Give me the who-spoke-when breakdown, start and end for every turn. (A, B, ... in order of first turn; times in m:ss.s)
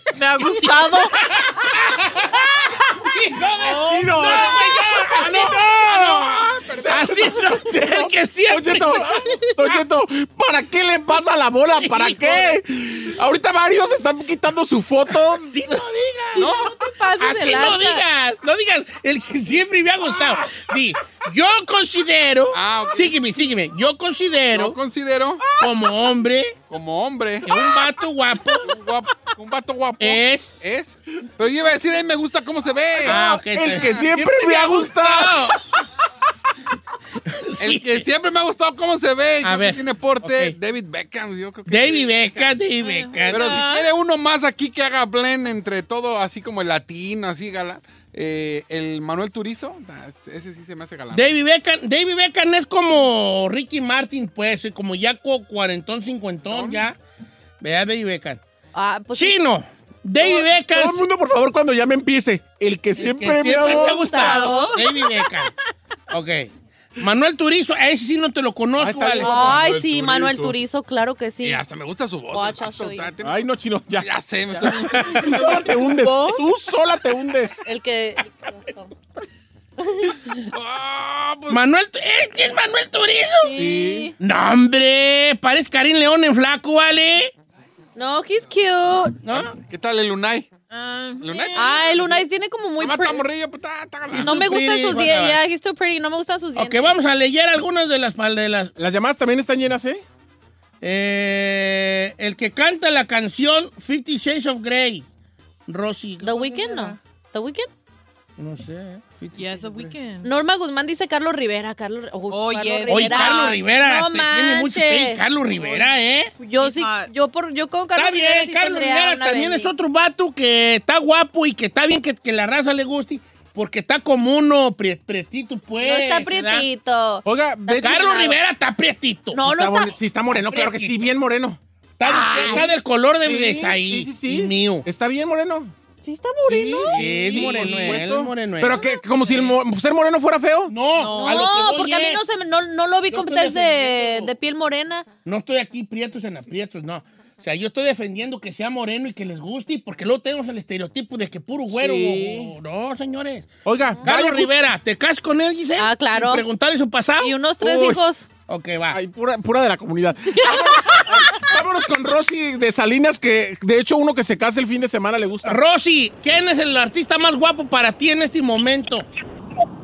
0:00.2-0:01.2 A
0:01.0-0:09.1 B
0:03.7-0:04.2 A
0:03.7-0:04.9 C
0:05.1-0:07.3 D
0:06.9-0:15.6 C
0:09.2-0:09.7 E
0:11.7-0:12.6 B
0:15.3-0:16.5 B
0:16.3-0:16.8 D
0:16.3-0:18.0 E
0:17.2-0:24.8 B
0:22.5-0:23.2 D
0:24.5-0:25.4 D
0:25.6-0:26.5 B
0:26.7-0:27.5 D
0:27.4-0:28.7 B
0:28.6-0:34.1 D
0:30.0-0:30.6 B
0:33.0-0:35.6 B
0:33.0-0:35.6 C
0:37.2-0:38.1 B
0:37.6-0:42.6 D
0:39.4-0:40.6 B
0:41.7-0:43.6 B
0:42.8-0:43.9 A
0:43.2-0:51.2 D
0:51.1-0:57.0 B
0:56.5-0:56.8 D
0:57.6-0:58.4 B
0:58.7-0:59.4 E
0:59.1-1:01.1 B
1:00.2-1:04.4 C
1:03.0-1:05.5 B
1:03.5-1:04.9 E
1:04.1-1:05.1 A
1:06.1-1:09.6 B
1:08.8-1:09.5 C
1:09.2-1:11.6 E
1:09.2-1:10.6 D
1:11.4-1:15.9 D
1:12.3-1:13.1 E
1:13.2-1:17.6 C
1:14.6-1:15.5 B
1:16.0-1:16.4 A
1:17.6-1:18.9 E
1:19.8-1:20.4 E
1:20.4-1:21.6 D
1:21.5-1:23.5 B
1:23.4-1:24.1 E
1:23.6-1:24.1 C
1:24.2-1:27.3 B
1:28.0-1:29.3 E
1:29.2-1:29.5 B
1:29.3-1:30.5 D
1:30.7-1:31.8 A
1:31.2-1:32.3 D
1:31.6-1:33.3 E
1:32.8-1:35.0 D
1:34.1-1:35.4 B
1:34.2-1:36.9 E
1:36.6-1:38.7 B
1:38.8-1:40.0 C
1:40.8-1:45.0 B
1:45.7-1:47.0 B
1:46.2-1:47.7 E
1:48.4-1:50.0 B
1:49.4-1:50.3 A
1:50.2-1:55.2 E
1:52.3-1:53.6 A
1:52.9-1:56.3 B
1:56.4-1:59.7 E
1:56.6-1:57.1 A
1:57.9-2:06.7 B
2:05.8-2:08.4 E
2:07.2-2:08.2 C
2:07.8-2:09.4 B
2:09.3-2:10.9 E
2:09.4-2:11.6 C
2:12.0-2:14.8 B
2:12.0-2:12.7 E
2:13.2-2:15.7 C
2:16.0-2:18.0 E
2:16.5-2:20.8 C
2:16.8-2:18.8 B
2:20.7-2:22.2 B
2:21.0-2:21.7 A
2:21.1-2:25.1 E
2:23.1-2:24.3 B
2:25.2-2:39.0 B
2:31.7-2:32.5 C
2:33.6-2:34.5 C
2:35.8-2:36.4 E
2:37.2-2:38.3 E
2:38.9-2:45.6 C
2:40.3-2:41.5 E
2:45.4-2:49.1 B